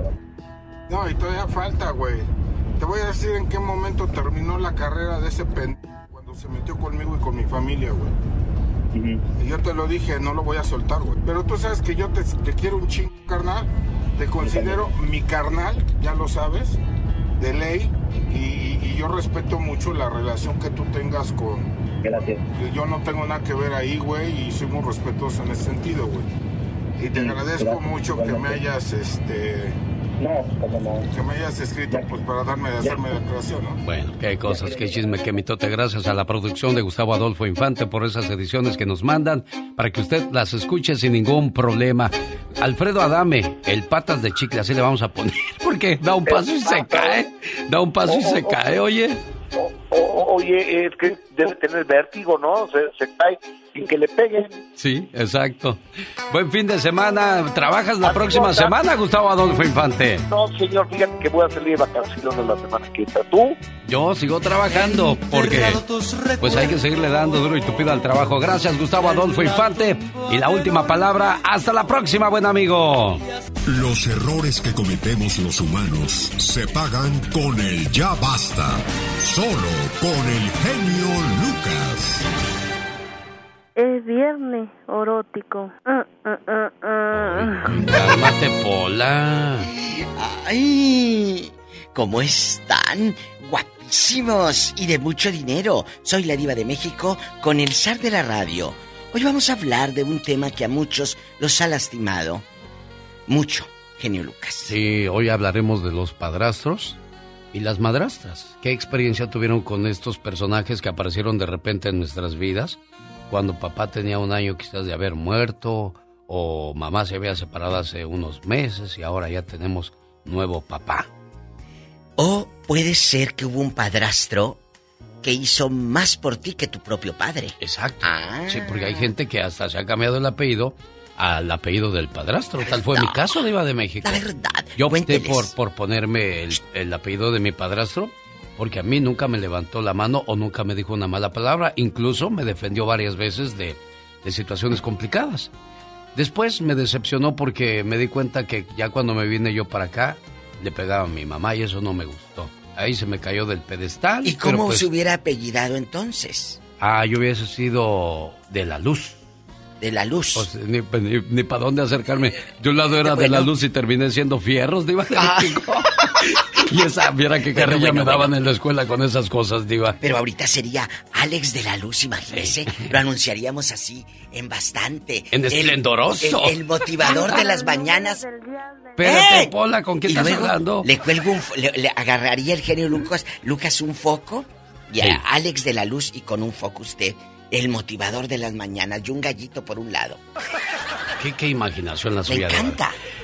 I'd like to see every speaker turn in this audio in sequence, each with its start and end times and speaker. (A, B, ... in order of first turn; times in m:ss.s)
0:00.9-0:08.2 A
0:09.4-0:16.8 A
0:17.4-0:21.7 A
0:22.6-0:26.3 A
0:27.0-0:29.8 A
0:31.1-0:33.8 A
0:33.8-0:49.2 B
0:46.2-0:47.2 C
0:48.1-0:48.7 C
0:49.6-0:54.6 C
0:54.8-1:00.2 B
0:58.0-0:58.7 C
1:00.3-1:03.6 C
1:03.8-1:05.8 B
1:06.4-1:13.2 B
1:13.7-1:22.2 D
1:23.8-1:28.0 E
1:27.1-1:29.7 B
1:29.6-1:42.4 F
1:43.3-1:44.8 F
1:44.6-1:47.0 B
1:47.5-1:52.8 B
1:53.3-2:01.1 B
2:02.2-2:04.6 F
2:05.2-2:09.1 F
2:07.6-2:25.5 B
2:12.6-2:13.4 F
2:14.0-2:15.5 F
2:26.2-2:34.9 B
2:34.2-2:36.6 F
2:36.8-2:39.2 B
2:39.8-2:40.5 F
2:40.4-2:50.0 B
2:42.9-2:43.5 F
2:45.2-2:45.6 F
2:47.5-2:48.3 F
2:50.0-2:58.2 F
2:52.3-2:52.9 B
2:55.3-2:57.4 B
2:56.9-2:59.2 E
2:59.0-3:00.9 B
2:59.0-3:10.2 F
3:05.0-3:05.2 B
3:11.2-3:12.8 B
3:12.3-3:12.9 F